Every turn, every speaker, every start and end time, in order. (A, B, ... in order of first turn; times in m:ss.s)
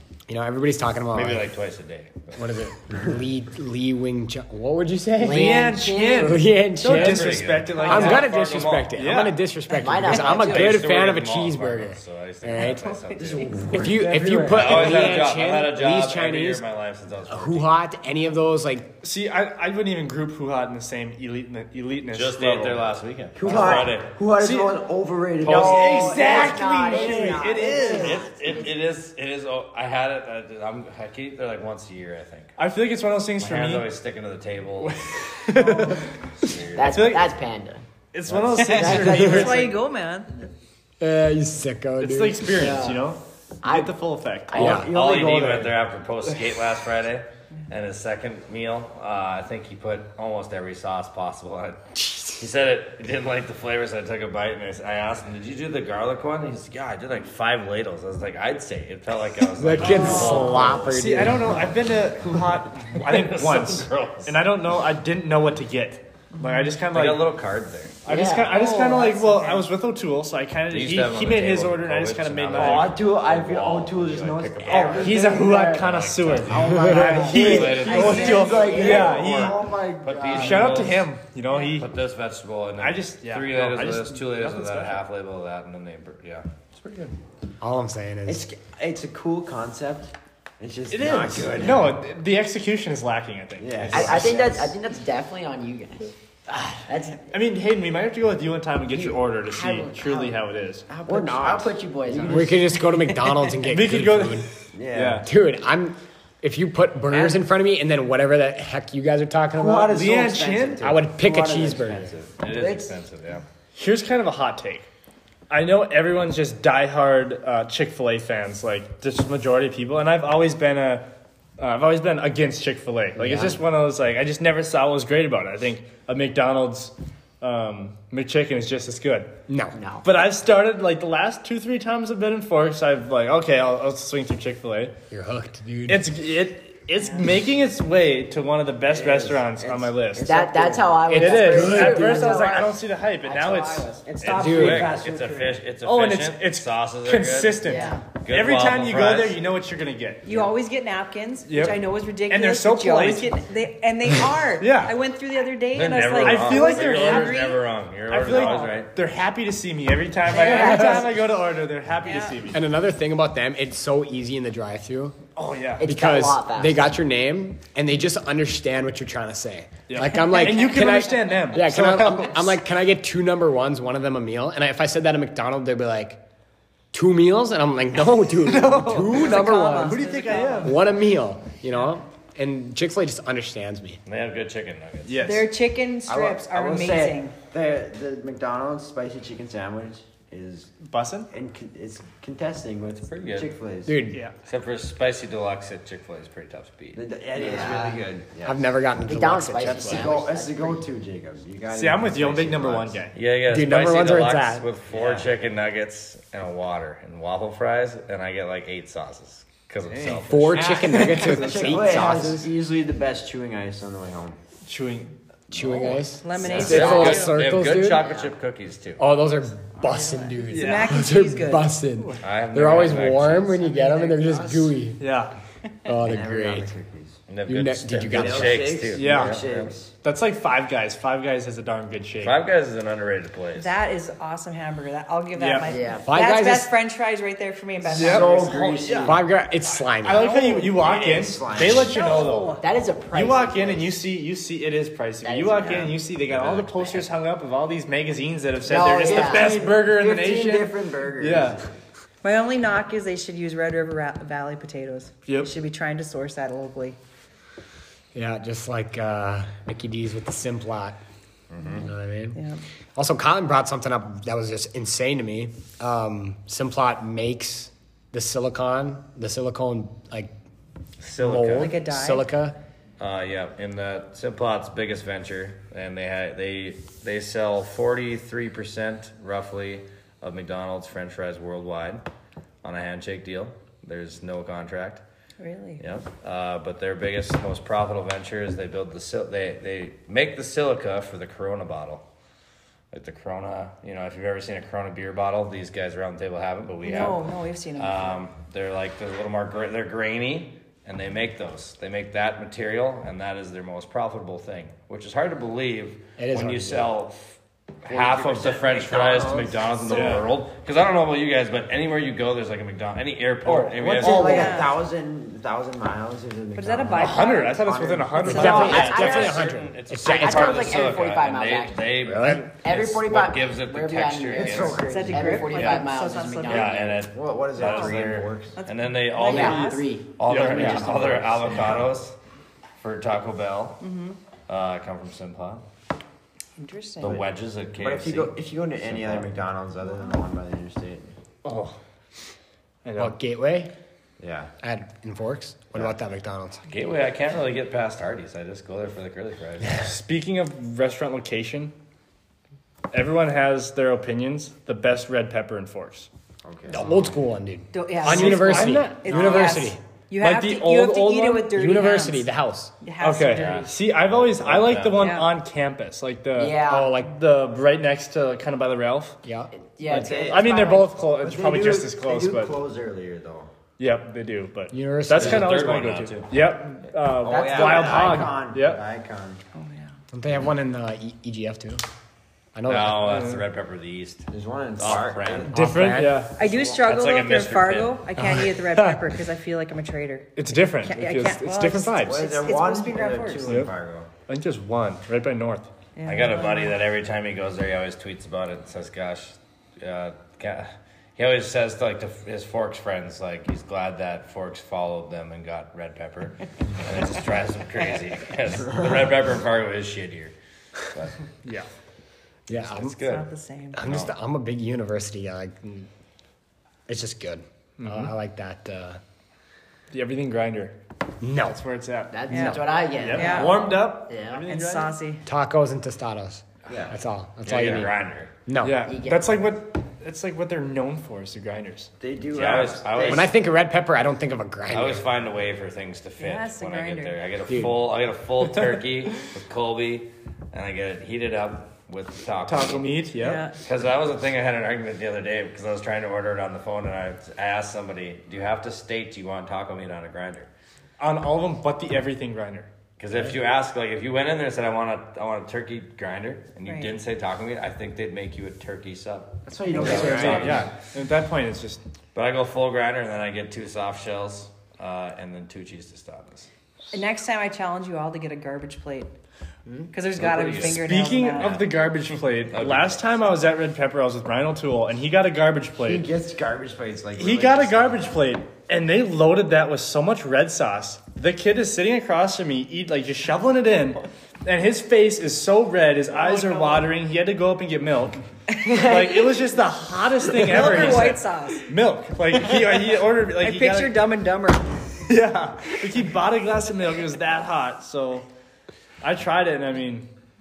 0:00.3-0:01.5 A
0:01.1-0:02.6 B
0:02.4-0:13.0 A
0:05.2-0:06.6 C
0:05.2-0:08.3 D
0:06.8-0:09.0 B
0:08.9-0:09.4 D
0:09.7-0:10.9 C
0:10.2-0:13.6 B
0:12.6-0:13.5 E
0:13.2-0:15.3 F
0:13.7-0:16.6 A
0:14.4-0:17.7 B
0:17.3-0:18.9 A
0:19.0-0:22.8 D
0:22.1-0:24.1 B
0:23.4-0:27.9 F
0:23.5-0:23.7 D
0:24.4-0:24.7 D
0:25.4-0:28.2 D
0:25.5-0:28.7 C
0:27.7-0:32.5 B
0:32.6-0:33.9 D
0:33.4-0:37.1 B
0:34.8-0:36.0 D
0:36.8-0:37.8 C
0:36.9-0:37.3 D
0:38.1-0:39.8 D
0:38.6-0:39.7 C
0:38.8-0:40.3 E
0:41.0-0:42.4 A
0:42.0-0:44.8 D
0:42.6-0:43.0 C
0:43.6-0:43.9 C
0:44.5-0:45.8 F
0:44.5-0:44.9 A
0:44.6-1:01.3 B
0:52.0-0:52.4 A
0:59.6-1:01.8 A
0:59.8-1:00.1 D
1:00.0-1:00.6 E
1:00.8-1:07.3 D
1:02.9-1:04.4 B
1:06.4-1:06.7 E
1:06.9-1:08.0 B
1:08.0-1:12.9 D
1:08.1-1:09.1 C
1:08.5-1:09.7 E
1:10.7-1:19.5 B
1:12.5-1:20.9 F
1:14.7-1:19.6 D
1:16.8-1:17.2 A
1:17.0-1:19.2 C
1:20.0-1:21.1 B
1:20.3-1:21.9 D
1:21.6-1:27.0 B
1:22.8-1:25.0 D
1:27.6-1:28.5 A
1:28.3-1:32.0 F
1:30.9-1:34.4 D
1:33.6-1:34.8 F
1:33.9-1:36.1 C
1:36.5-1:40.8 D
1:36.7-1:37.2 C
1:38.9-1:40.4 C
1:40.9-1:42.6 F
1:41.1-1:42.7 C
1:42.3-1:44.5 A
1:43.6-1:45.3 D
1:44.7-1:45.2 F
1:45.2-1:50.0 A
1:49.6-1:52.4 F
1:49.9-1:51.0 D
1:50.8-1:52.1 A
1:52.4-1:53.4 B
1:52.5-1:53.0 C
1:53.8-1:54.9 D
1:55.5-2:01.0 D
2:01.6-2:09.3 D
2:03.2-2:03.6 A
2:09.5-2:09.8 A
2:09.8-2:10.1 C
2:10.0-2:14.9 D
2:15.1-2:16.1 A
2:15.9-2:20.3 D
2:17.0-2:17.2 E
2:18.9-2:21.0 F
2:20.2-2:22.7 C
2:21.1-2:22.4 A
2:21.1-2:24.0 D
2:23.2-2:24.1 C
2:24.1-2:25.6 F
2:24.2-2:29.4 B
2:24.3-2:24.9 A
2:25.8-2:30.3 D
2:27.6-2:28.0 C
2:27.7-2:28.0 E
2:30.2-2:37.7 E
2:31.5-2:33.3 D
2:34.6-2:35.0 D
2:35.7-2:38.9 B
2:36.2-2:37.6 D
2:38.1-2:42.6 D
2:40.3-2:41.1 E
2:40.5-2:41.1 A
2:42.0-2:42.5 E
2:42.5-2:45.2 A
2:45.4-2:45.9 D
2:45.8-2:47.0 C
2:45.8-2:56.2 A
2:49.9-2:52.6 D
2:56.9-3:00.0 A
2:58.4-3:00.8 D
2:59.0-3:00.8 E
3:00.6-3:04.0 A
3:04.1-3:05.3 B
3:05.1-3:05.5 D
3:05.2-3:07.4 E
3:06.1-3:10.7 F
3:10.8-3:11.3 D
3:11.3-3:14.0 F
3:13.1-3:13.5 B
3:13.9-3:14.2 A
3:14.4-3:17.0 B
3:16.9-3:18.6 F
3:17.4-3:18.0 C
3:18.4-3:20.1 A
3:19.1-3:20.8 C
3:19.6-3:23.0 F
3:21.7-3:23.1 D
3:23.1-3:30.8 B
3:23.5-3:24.7 A
3:24.9-3:25.3 F
3:29.9-3:31.9 D
3:30.3-3:32.5 A
3:30.7-3:34.4 F
3:34.7-3:35.1 D
3:35.5-3:38.1 A
3:35.6-3:37.0 F
3:36.2-3:37.4 E
3:36.5-3:39.0 B
3:39.0-3:45.0 A
3:39.8-3:41.7 E
3:40.5-3:41.0 D
3:42.2-3:43.6 B
3:43.7-3:44.7 F
3:45.0-3:45.3 D
3:45.9-3:46.7 A
3:46.0-3:47.2 F
3:47.3-3:49.7 B
3:47.5-3:48.8 A
3:48.1-3:49.9 F
3:49.0-3:49.4 D
3:50.0-3:52.4 D
3:52.2-3:53.7 B
3:53.6-3:58.8 E
3:55.4-3:55.7 D
3:55.7-3:56.1 C
3:56.1-3:56.7 A
3:57.9-3:59.2 F
3:57.9-3:59.2 D
3:59.0-4:00.3 A
4:00.0-4:02.6 D
4:00.2-4:00.7 E
4:00.6-4:02.1 F
4:01.8-4:02.6 E
4:02.6-4:04.0 C
4:03.1-4:11.6 D
4:05.2-4:06.0 C
4:06.3-4:07.0 B
4:08.6-4:09.6 C
4:09.0-4:11.7 F
4:12.2-4:17.0 E
4:15.3-4:15.5 D
4:18.1-4:21.0 A
4:21.5-4:21.8 B
4:21.8-4:22.4 A
4:22.3-4:22.6 E
4:23.0-4:30.3 A
4:31.0-4:31.8 B
4:31.2-4:32.6 A
4:31.5-4:32.3 E
4:33.0-4:42.0 B
4:42.6-4:45.0 B
4:45.4-4:45.8 E
4:45.8-4:52.0 B
4:52.9-4:57.2 B
4:56.8-4:58.2 E
4:57.8-5:14.6 B
5:06.2-5:06.9 A
5:07.9-5:10.2 F
5:09.9-5:10.3 D
5:13.4-5:18.8 F
5:14.0-5:14.8 E
5:16.6-5:19.3 E
5:17.0-5:18.9 D
5:18.3-5:20.9 A
5:18.3-5:19.4 C
5:18.6-5:24.8 B
5:20.0-5:27.1 C
5:22.0-5:22.5 A
5:24.3-5:25.7 F
5:24.8-5:26.8 E
5:26.5-5:32.2 B
5:27.1-5:28.6 F
5:27.6-5:28.0 E
5:28.6-5:30.0 E
5:29.2-5:31.6 C
5:30.2-5:30.9 D
5:31.2-5:31.7 F
5:32.8-5:33.8 B
5:33.8-5:34.2 E
5:34.5-5:35.6 B
5:36.6-5:37.2 E
5:37.0-5:39.3 B
5:37.8-5:41.1 F
5:41.4-5:41.8 D
5:42.8-5:43.2 D
5:43.0-5:43.7 A
5:44.2-5:44.5 F
5:44.6-5:46.6 A
5:46.7-5:49.8 B
5:49.8-5:51.7 D
5:52.9-5:56.1 D
5:56.4-5:57.1 F
5:56.7-5:59.8 A
5:57.7-6:02.3 E
5:58.0-5:59.6 D
6:00.2-6:01.5 D
6:01.5-6:02.7 A
6:02.8-6:03.7 E
6:03.0-6:09.2 D
6:03.2-6:05.1 B
6:04.9-6:05.3 E
6:06.3-6:07.0 C
6:06.6-6:07.1 A
6:09.2-6:09.5 A
6:09.6-6:11.0 C
6:09.9-6:13.5 F
6:09.9-6:12.6 D
6:13.8-6:18.8 D
6:14.7-6:15.8 A
6:15.2-6:16.4 B
6:17.2-6:19.4 F
6:17.3-6:18.2 C
6:19.6-6:19.9 E
6:20.1-6:21.8 A
6:22.6-6:23.2 A
6:22.7-6:25.6 B
6:23.1-6:23.4 D
6:24.3-6:25.5 F
6:25.5-6:26.3 A
6:25.5-6:26.3 D
6:26.4-6:30.3 E
6:26.7-6:28.0 B
6:28.2-6:29.1 A
6:30.4-6:32.2 D
6:30.8-6:33.6 E
6:32.0-6:34.1 F
6:33.4-6:33.7 D
6:34.3-6:35.7 D
6:36.0-6:36.8 E
6:36.0-6:50.4 B
6:51.4-6:51.7 D
6:52.5-6:53.0 A
6:52.6-6:54.1 B
6:53.0-6:53.9 E
6:53.8-6:55.9 A
6:56.9-6:59.0 A
6:57.8-6:58.1 D
6:59.9-7:00.8 D
7:01.2-7:01.6 A
7:01.4-7:05.0 D
7:02.1-7:04.4 C
7:02.3-7:03.7 E
7:04.4-7:05.2 E
7:05.2-7:07.9 A
7:06.7-7:07.0 F
7:07.4-7:08.3 B
7:08.5-7:08.9 A
7:08.6-7:12.7 D
7:08.8-7:09.4 C
7:12.0-7:13.3 F
7:12.3-7:13.3 B
7:13.1-7:15.0 A
7:14.7-7:23.1 B
7:16.2-7:17.2 E
7:17.5-7:17.8 A
7:22.5-7:23.4 D
7:23.2-7:23.6 E
7:23.6-7:30.5 B
7:31.0-7:32.7 D
7:33.0-7:40.7 B
7:36.7-7:36.9 E
7:39.5-7:40.7 F
7:39.7-7:41.8 D
7:42.2-7:46.5 B
7:46.9-7:49.1 E
7:49.9-7:51.6 E
7:50.2-7:51.8 B
7:50.5-7:56.1 D
7:52.5-7:53.1 B
7:55.8-7:58.1 F
7:57.2-8:14.0 D
8:06.1-8:06.9 E
8:08.5-8:09.4 E
8:10.3-8:11.7 E
8:13.4-8:14.7 E
8:15.1-8:18.3 D
8:19.0-8:20.1 D